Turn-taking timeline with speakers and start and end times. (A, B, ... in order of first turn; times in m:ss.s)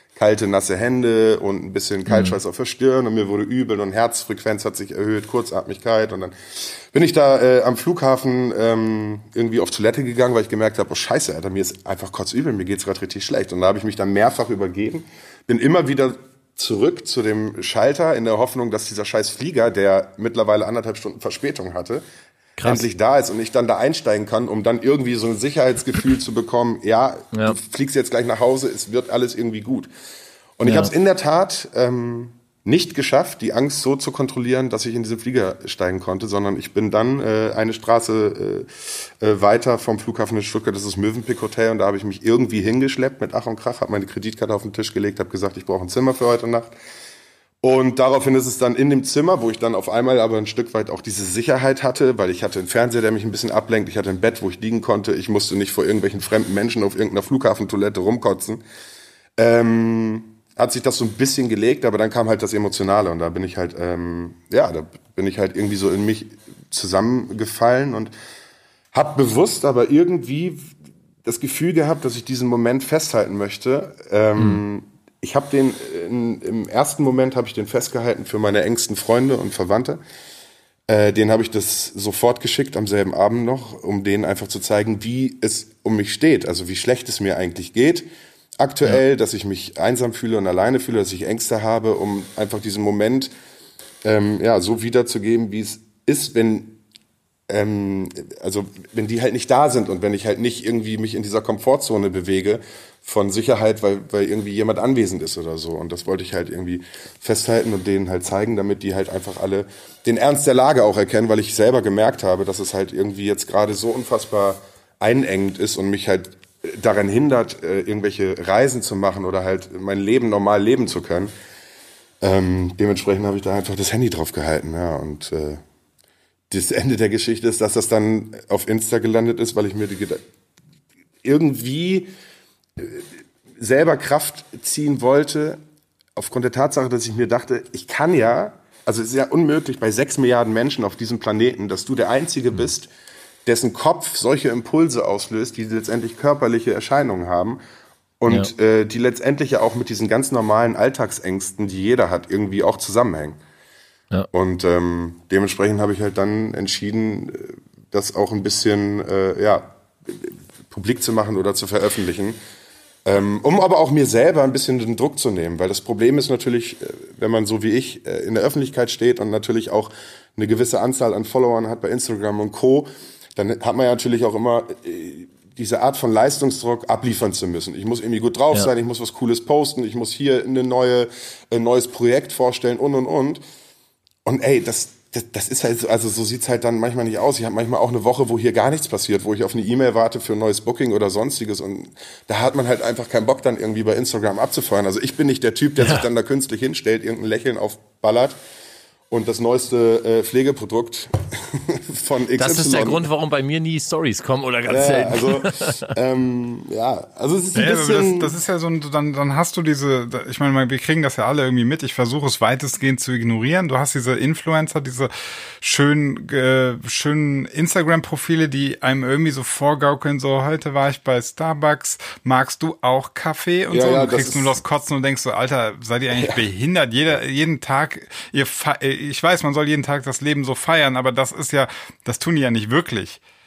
0:00.1-0:22.0 A
0:02.1-0:02.4 B
0:22.6-0:22.8 B
0:22.6-0:29.9 A
0:30.6-0:46.7 A
0:30.6-0:30.9 B
0:47.6-0:58.6 A
0:59.4-1:08.1 A
1:08.9-1:20.0 A
1:20.9-1:28.0 A
1:28.6-1:33.3 A
1:34.0-1:36.8 A
1:37.5-2:01.3 A
2:02.2-2:05.6 A
2:06.5-2:10.2 A
2:11.2-2:12.1 A
2:12.8-2:15.6 A
2:16.2-2:22.9 A
2:23.4-2:27.6 A
2:28.2-2:33.4 A
2:34.3-2:42.4 A
2:43.0-3:03.4 A
3:04.2-3:18.4 A
3:19.1-3:23.0 A
3:22.4-3:25.9 B
3:24.7-3:28.3 A
3:27.5-3:53.2 C
3:43.7-3:44.5 A